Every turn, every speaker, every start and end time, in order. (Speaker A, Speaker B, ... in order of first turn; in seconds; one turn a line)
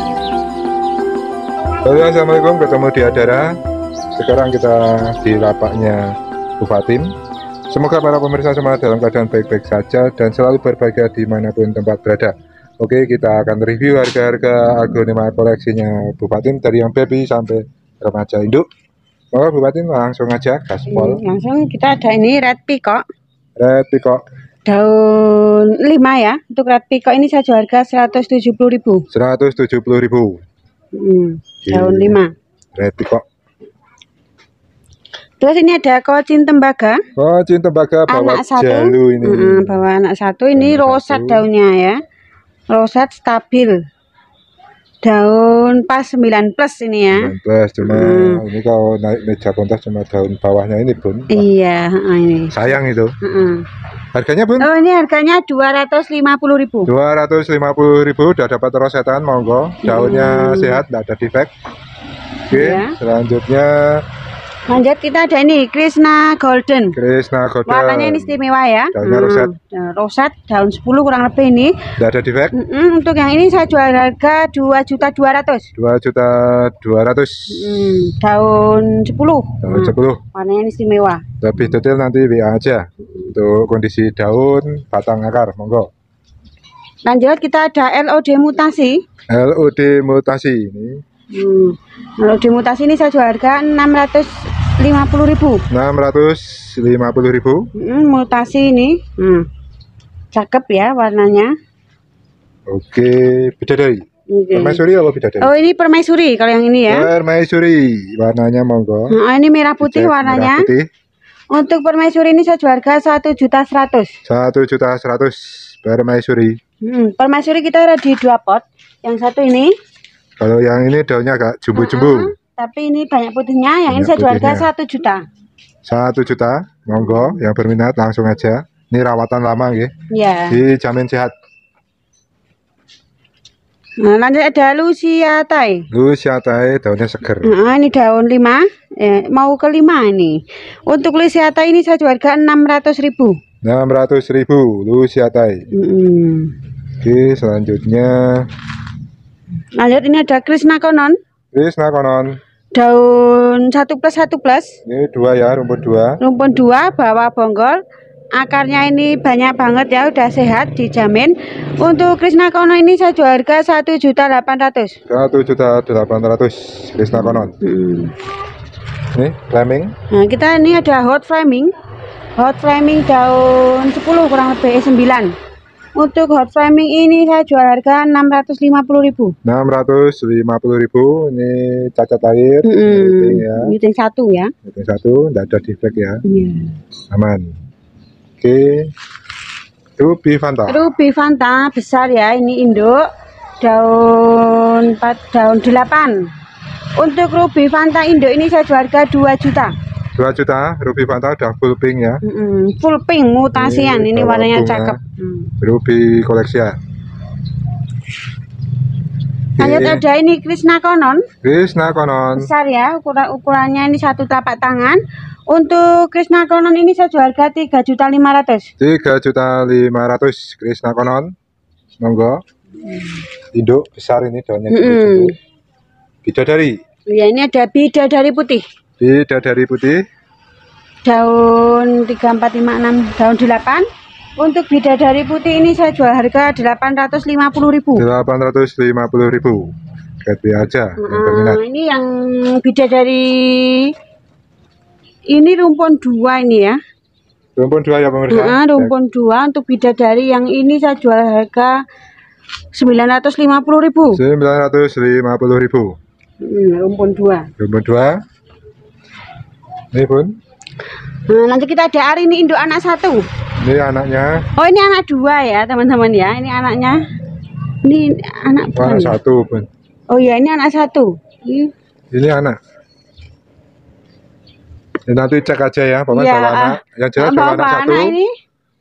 Speaker A: 1.8-3.5
Speaker A: 4.1-7.1
Speaker A: 7.7-18.6
Speaker A: 19.3-21.2
Speaker B: 20.9-23.0
Speaker A: 23.6-24.2
Speaker B: 24.6-29.0
Speaker A: 29.1-30.4
Speaker B: 30.9-32.3
Speaker A: 31.6-32.2
Speaker A: 32.8-33.2
Speaker B: 35.4-37.0
Speaker A: 37.1-39.8
Speaker B: 38.1-42.0
Speaker A: 40.5-41.5
Speaker B: 42.7-43.8
Speaker B: 45.0-48.4
Speaker A: 47.1-51.5
Speaker B: 51.3-53.6
Speaker A: 52.5-53.1
Speaker A: 54.1-54.7
Speaker B: 54.6-56.9
Speaker A: 56.9-61.5
Speaker B: 59.8-60.8
Speaker A: 62.5-64.0
Speaker B: 62.5-63.0
Speaker B: 64.7-67.0
Speaker A: 66.9-68.3
Speaker B: 67.7-71.8
Speaker A: 68.9-69.5
Speaker A: 72.0-72.5
Speaker B: 72.5-75.7
Speaker A: 75.8-78.1
Speaker B: 77.5-81.2
Speaker A: 79.6-80.2
Speaker A: 81.4-85.9
Speaker B: 87.0-89.0
Speaker A: 89.3-91.0
Speaker B: 91.3-95.6
Speaker A: 95.7-97.7
Speaker B: 97.8-99.5
Speaker B: 100.3-101.5
Speaker A: 102.7-105.5
Speaker B: 104.3-104.8
Speaker B: 105.4-107.1
Speaker A: 106.9-109.2
Speaker B: 109.1-110.7
Speaker A: 109.8-110.9
Speaker B: 111.5-114.1
Speaker A: 114.2-116.6
Speaker B: 116.8-119.7
Speaker A: 120.4-122.3
Speaker B: 121.7-125.2
Speaker A: 123.9-124.7
Speaker A: 125.8-129.9
Speaker B: 127.0-127.3
Speaker B: 130.1-130.6
Speaker A: 130.5-131.3
Speaker B: 134.0-135.8
Speaker A: 135.9-137.5
Speaker B: 137.4-143.4
Speaker A: 143.6-145.6
Speaker B: 145.7-146.5
Speaker A: 147.0-148.5
Speaker B: 149.8-151.2
Speaker A: 151.5-152.4
Speaker B: 152.7-154.8
Speaker A: 154.8-156.2
Speaker B: 156.2-157.8
Speaker B: 158.3-165.0
Speaker A: 165.1-167.5
Speaker B: 167.1-168.1
Speaker A: 169.1-169.9
Speaker B: 170.1-171.7
Speaker B: 172.3-175.3
Speaker B: 175.9-179.3
Speaker A: 179.4-183.7
Speaker B: 182.6-184.5
Speaker A: 184.6-186.2
Speaker B: 186.2-186.7
Speaker A: 187.1-187.6
Speaker A: 188.4-188.9
Speaker A: 190.0-190.8
Speaker B: 190.7-193.0
Speaker B: 193.6-196.3
Speaker B: 196.9-199.7
Speaker A: 200.2-202.2
Speaker B: 202.2-205.5
Speaker A: 203.5-205.0
Speaker A: 205.6-206.8
Speaker A: 209.6-210.0
Speaker B: 209.6-211.2
Speaker A: 211.4-212.5
Speaker B: 212.3-218.7
Speaker A: 218.8-221.3
Speaker A: 222.0-222.4
Speaker B: 222.8-223.2
Speaker A: 223.5-225.3
Speaker B: 224.7-225.3
Speaker A: 226.2-226.8
Speaker B: 227.1-228.6
Speaker A: 229.0-230.0
Speaker B: 231.0-233.8
Speaker B: 234.4-238.0
Speaker A: 238.0-239.7
Speaker A: 240.2-241.6
Speaker B: 241.0-243.9
Speaker B: 245.3-246.8
Speaker A: 247.6-248.9
Speaker B: 248.3-251.7
Speaker B: 252.7-254.2
Speaker A: 254.1-255.9
Speaker B: 256.4-257.5
Speaker A: 257.6-258.2
Speaker A: 259.9-260.3
Speaker B: 261.3-263.2
Speaker A: 263.6-264.4
Speaker B: 264.6-267.0
Speaker B: 267.8-269.1
Speaker A: 268.7-269.7
Speaker B: 270.1-271.7
Speaker A: 272.1-272.6
Speaker A: 275.1-278.2
Speaker B: 276.1-278.3